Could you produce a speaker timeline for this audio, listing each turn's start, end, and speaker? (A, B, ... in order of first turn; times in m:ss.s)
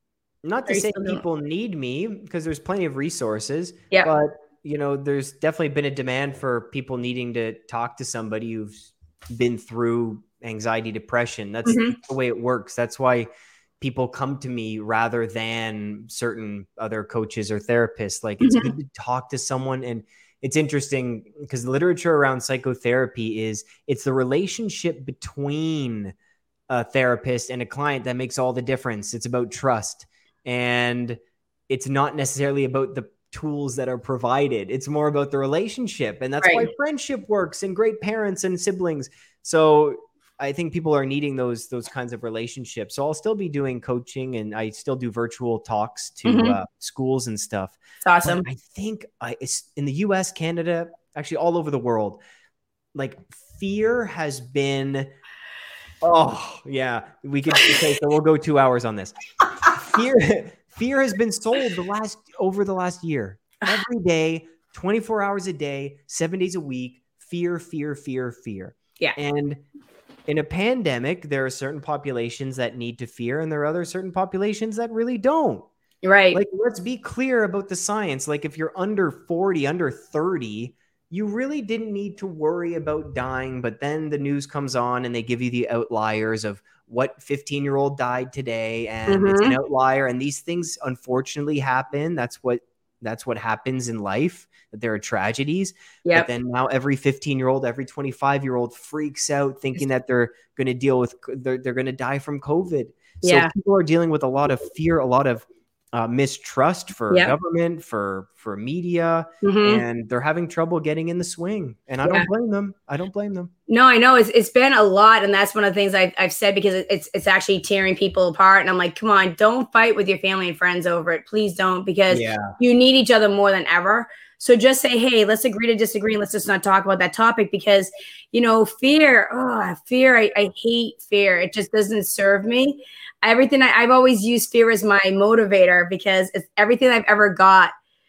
0:00.4-0:13.3 A
0:00.7-0:01.2 B
0:11.6-0:12.0 B
0:13.8-0:26.1 A
0:18.4-0:18.7 B
0:26.7-0:52.2 A
0:36.4-0:36.7 B
0:46.2-0:46.6 B
0:48.0-0:48.4 B
0:53.0-0:55.1 A
0:56.0-0:59.2 A
0:59.7-1:09.6 A
1:10.3-1:15.7 A
1:16.0-1:16.4 B
1:16.3-1:53.5 A
1:29.1-1:29.6 B
1:43.2-1:43.5 B
1:49.4-1:49.8 B
1:53.7-2:17.7 B
2:02.1-2:02.6 A